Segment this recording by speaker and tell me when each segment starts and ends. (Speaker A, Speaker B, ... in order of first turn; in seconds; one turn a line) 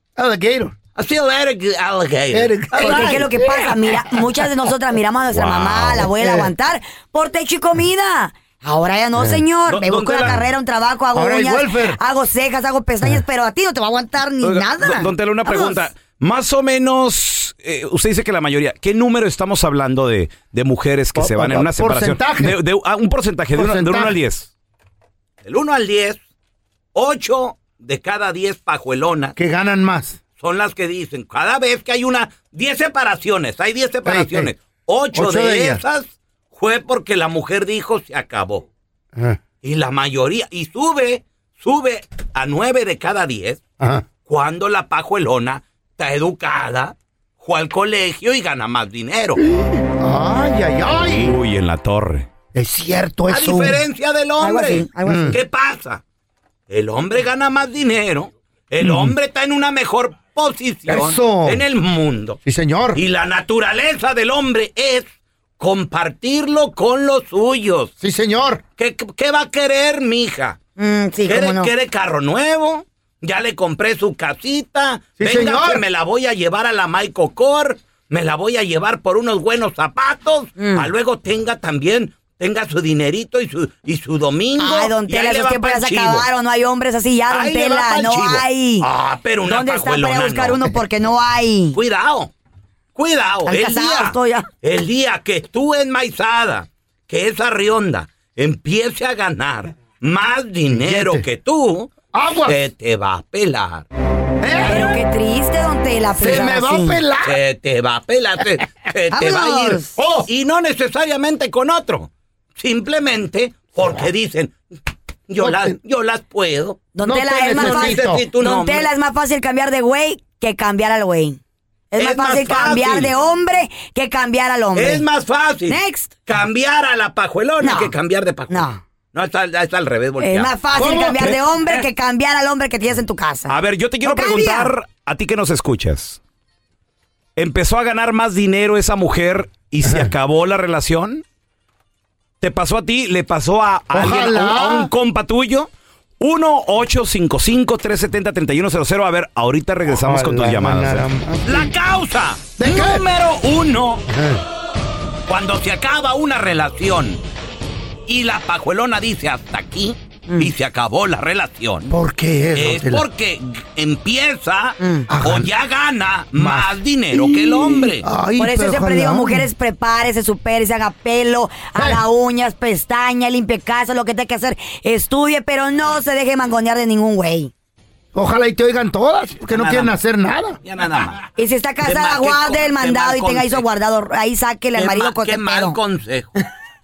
Speaker A: 0.1-0.7
Speaker B: 0.9-3.2
Speaker A: 2.3-4.2
Speaker C: 2.8-15.8
Speaker A: 5.8-6.5
Speaker A: 9.2-9.4
Speaker B: 9.7-10.4
Speaker D: 9.8-10.2
Speaker A: 11.1-12.0
Speaker D: 14.4-24.5
Speaker A: 21.1-22.6
Speaker A: 23.5-24.1
Speaker B: 25.4-26.2
Speaker B: 26.9-29.4
Speaker A: 29.4-30.2
Speaker B: 30.4-38.6
Speaker A: 34.0-34.5
Speaker A: 35.1-35.8
Speaker B: 39.6-43.6
Speaker A: 43.8-44.0
Speaker B: 44.2-49.4
Speaker A: 49.4-51.4
Speaker D: 51.1-52.3
Speaker A: 52.5-53.8
Speaker B: 53.3-56.0
Speaker C: 54.4-55.4
Speaker A: 55.0-55.4
Speaker B: 56.7-62.4
Speaker A: 58.8-59.1
Speaker A: 60.9-61.6
Speaker A: 62.4-63.0
Speaker B: 62.9-65.1
Speaker B: 65.6-67.9
Speaker A: 68.0-68.6
Speaker B: 68.8-70.6
Speaker C: 70.8-71.7
Speaker B: 71.2-86.3
Speaker A: 75.2-75.8
Speaker C: 80.6-80.9
Speaker C: 84.6-88.9
Speaker B: 87.3-90.7
Speaker C: 89.5-91.8
Speaker B: 91.7-92.3
Speaker B: 92.9-101.9
Speaker C: 93.5-94.5
Speaker A: 100.7-101.2
Speaker A: 102.1-102.5
Speaker B: 102.5-103.8
Speaker A: 104.4-105.0
Speaker C: 104.7-107.0
Speaker A: 106.2-107.4
Speaker B: 107.2-114.5
Speaker C: 109.1-110.0
Speaker A: 110.0-110.3
Speaker B: 115.3-116.8
Speaker A: 115.4-115.8
Speaker C: 116.9-121.4
Speaker A: 117.0-118.2
Speaker B: 117.5-118.9
Speaker C: 121.9-125.0
Speaker B: 122.0-123.1
Speaker B: 124.8-130.6
Speaker C: 125.7-126.2
Speaker C: 127.6-127.9
Speaker C: 128.5-128.8
Speaker C: 130.2-134.7
Speaker A: 130.7-131.4
Speaker D: 133.5-136.2
Speaker D: 137.3-141.2
Speaker A: 139.8-140.1
Speaker D: 142.4-145.7
Speaker A: 143.9-144.9
Speaker D: 146.2-151.1
Speaker A: 149.8-151.7
Speaker B: 151.4-154.0
Speaker A: 152.6-153.0
Speaker A: 154.1-154.4
Speaker B: 155.3-157.2
Speaker B: 158.1-161.9
Speaker A: 161.9-163.0
Speaker B: 162.5-168.1
Speaker C: 164.8-165.1
Speaker A: 165.1-165.5
Speaker A: 166.3-169.5
Speaker C: 168.4-177.5
Speaker A: 171.8-172.0
Speaker A: 178.1-180.6
Speaker B: 179.5-179.9
Speaker B: 180.6-181.2
Speaker C: 181.3-185.8
Speaker B: 181.8-183.6
Speaker B: 184.8-186.3